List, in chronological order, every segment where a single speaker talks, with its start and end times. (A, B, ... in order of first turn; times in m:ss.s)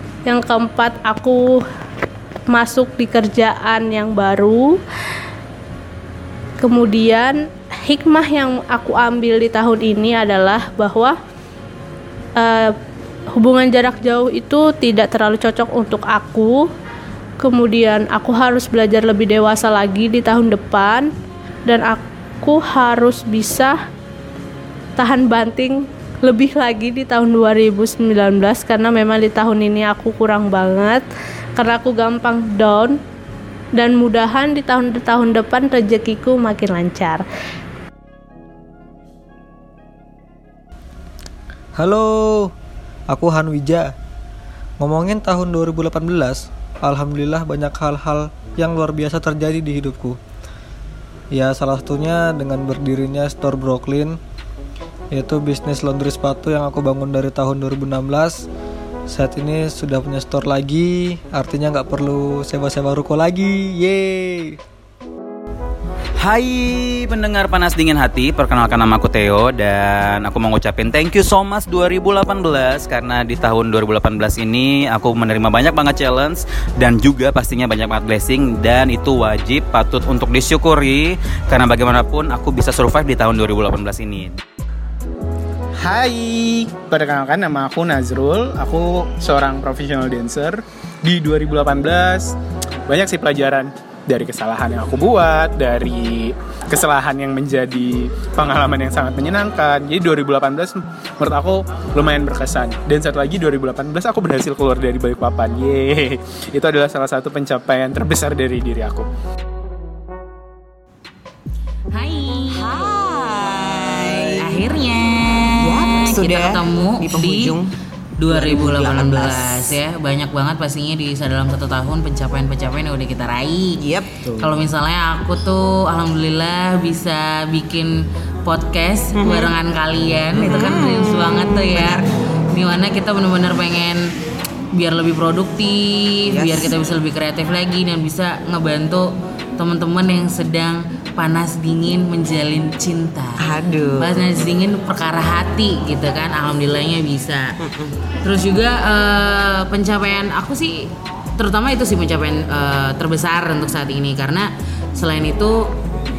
0:00.2-0:01.6 A
0:02.5-0:04.8 A
0:06.6-0:11.1 A
0:12.4-0:12.7 A
0:13.4-0:16.7 A
0:17.4-0:21.1 A
0:21.6-0:23.7 A
0:25.0-0:31.0 A
0:31.6-0:33.0 A
0:33.8-0:37.2 A
0:41.8-0:42.5 B
0:43.1-0:43.9 B
0:44.8-0:50.2 B
0:51.3-0:54.2 B
0:55.1-0:58.4 B
0:59.1-1:04.6 B
1:06.2-1:24.4 C
1:25.8-1:32.3 D
1:32.9-1:49.0 D
1:51.9-1:57.6 E
1:52.5-1:54.6 F
1:55.6-1:57.7 F
1:58.2-2:03.8 E
1:58.3-1:59.7 F
2:03.8-2:04.5 F
2:04.4-2:07.9 E
2:08.4-2:14.1 E
2:09.2-2:09.5 F
2:10.3-2:12.0 F
2:14.7-2:23.4 E
2:16.2-2:16.7 F
2:23.4-2:24.3 F
2:24.0-2:27.5 E
2:27.6-2:28.0 F
2:28.2-2:35.6 E